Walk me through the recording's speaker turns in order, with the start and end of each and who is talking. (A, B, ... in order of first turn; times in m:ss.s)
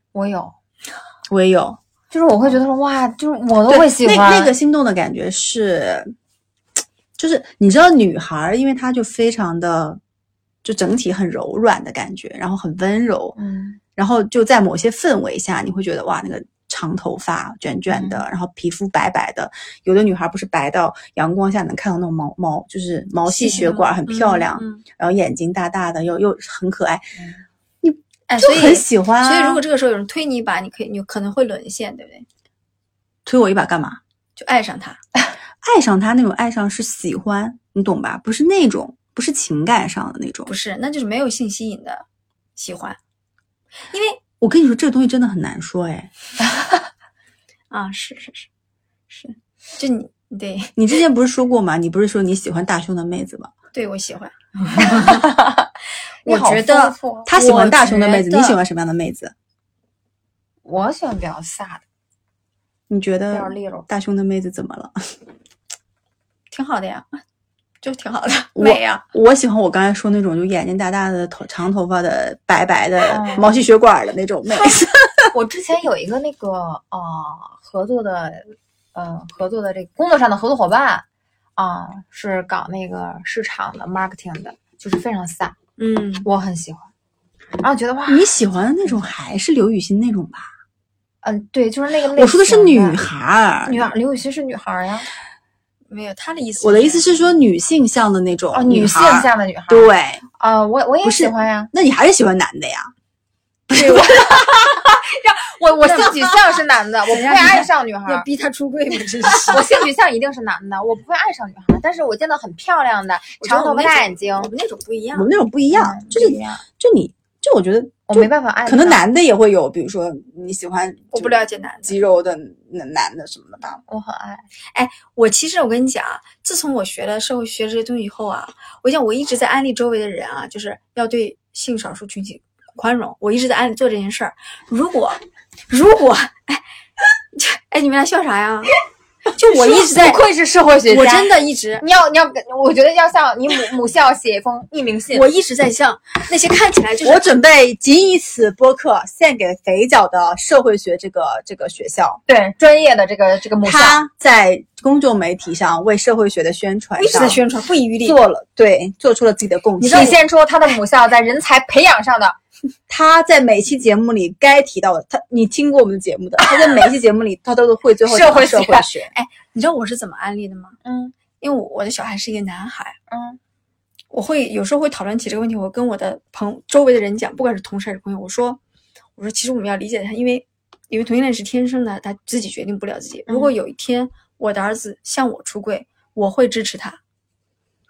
0:00.1-0:00.5 A
0:01.3-0:01.8 B
0:02.1-0:04.5 A
0:03.7-0:06.1 B
0:07.2-0:10.0 B
0:10.6-0:13.4 B
0:13.4-0:13.8 A
0:14.0-0:27.1 B
0:17.9-0:18.2 A
0:23.4-0:24.8 C
0:23.4-0:23.8 A
0:27.8-0:29.6 B
0:28.3-0:32.3 C
0:33.2-0:34.0 B
0:34.4-0:35.0 C
0:35.6-0:40.5 B
0:40.5-0:43.0 C
0:43.9-0:44.2 C
0:44.4-0:46.1 B
0:47.7-0:48.5 C
0:49.1-0:50.8 C
0:50.8-0:53.5 B
0:53.7-0:55.2 C
0:54.7-0:55.7 A
0:56.2-0:57.3 A
0:56.2-0:58.6 C
0:57.3-0:59.3 B
1:00.6-1:01.8 A
1:02.9-1:05.0 B
1:03.3-1:03.9 A
1:06.5-1:07.2 C
1:07.8-1:09.0 C
1:08.6-1:15.3 B
1:13.1-1:13.6 A
1:15.3-1:21.0 A
1:21.6-1:25.6 A
1:25.8-1:26.3 C
1:26.2-1:26.9 A
1:27.6-1:29.2 A
1:28.1-1:30.5 B
1:31.2-1:33.0 A
1:32.1-1:33.9 B
1:33.7-1:35.1 A
1:35.9-1:37.2 C
1:36.6-1:40.2 B
1:38.5-1:41.7 A
1:41.0-1:42.9 B
1:43.7-1:44.8 B
1:43.7-1:48.3 A
1:43.8-1:44.1 C
1:45.8-1:49.7 C
1:49.4-1:54.5 A
1:53.4-1:55.3 C
1:55.2-2:03.8 B
1:55.7-1:56.6 A
1:58.1-1:59.0 A
2:01.1-2:02.0 C
2:03.9-2:04.4 A
2:04.7-2:16.6 C
2:17.3-2:18.8 C
2:19.4-2:20.2 C
2:19.5-2:25.3 A
2:20.9-2:21.8 C
2:25.1-2:27.3 C
2:27.0-2:32.2 B
2:32.3-2:34.0 A
2:33.6-2:37.4 B
2:37.0-2:38.2 C
2:38.0-2:40.2 B
2:39.8-2:40.2 C
2:39.8-2:42.4 A
2:42.9-2:49.1 B
2:46.4-2:46.6 A
2:48.0-2:48.9 A
2:49.1-2:50.8 C
2:50.8-2:51.2 A
2:51.4-2:53.0 C
2:53.1-2:53.4 A
2:54.1-2:58.6 C
2:59.2-3:07.0 C
3:03.3-3:03.5 A